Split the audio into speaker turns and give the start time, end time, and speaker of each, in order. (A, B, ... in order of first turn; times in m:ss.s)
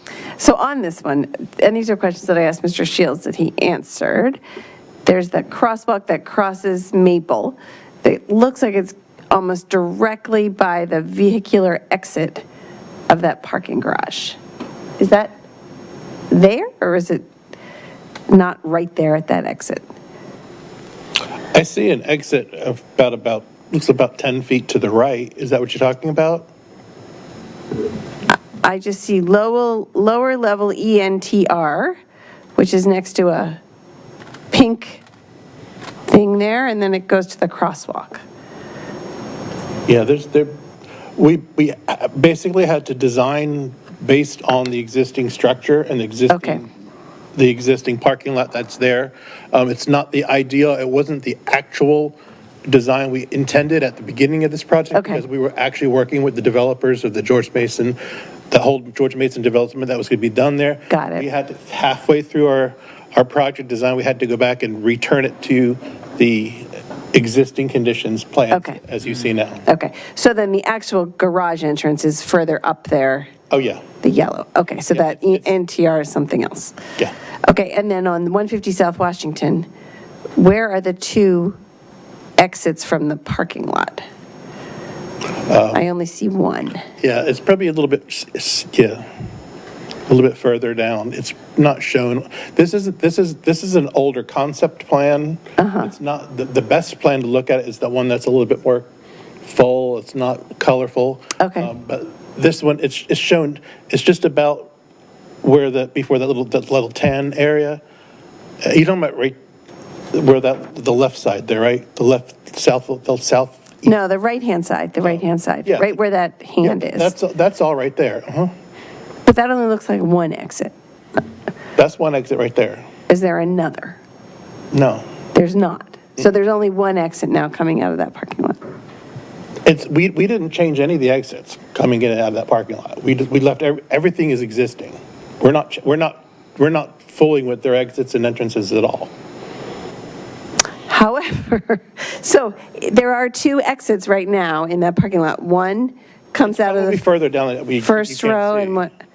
0:00.4-0:04.4 A
0:05.0-0:12.4 A
0:13.1-0:14.4 A
0:15.0-0:15.4 A
0:16.3-0:17.2 A
0:18.3-0:19.8 A
0:21.5-0:26.5 B
0:28.5-0:32.0 A
0:32.6-0:33.6 A
0:34.5-0:35.0 A
0:36.1-0:38.2 A
0:39.9-0:40.6 B
0:41.2-0:46.7 B
0:46.3-0:46.6 A
0:47.4-0:52.2 B
0:52.7-0:58.0 B
0:54.9-0:55.2 A
0:58.5-1:09.6 B
1:00.9-1:01.2 A
1:08.5-1:08.8 A
1:09.7-1:13.3 A
1:13.5-1:13.8 B
1:14.0-1:16.8 A
1:14.9-1:15.5 B
1:17.5-1:19.7 A
1:20.4-1:21.6 A
1:22.4-1:24.0 A
1:25.5-1:25.8 B
1:25.7-1:26.8 A
1:27.0-1:29.1 B
1:30.1-1:38.9 B
1:35.6-1:35.9 A
1:39.4-1:44.7 B
1:41.4-1:41.7 A
1:45.4-1:47.8 B
1:48.6-1:49.4 B
1:50.1-1:53.9 B
1:53.9-1:57.1 A
1:55.0-1:56.0 B
1:56.6-1:58.5 B
1:59.3-2:00.7 A
2:01.8-2:02.9 B
2:03.1-2:04.0 A
2:04.7-2:05.1 B
2:05.3-2:08.6 A
2:09.7-2:19.1 B
2:20.9-2:27.0 A
2:26.4-2:28.8 B
2:27.8-2:28.9 A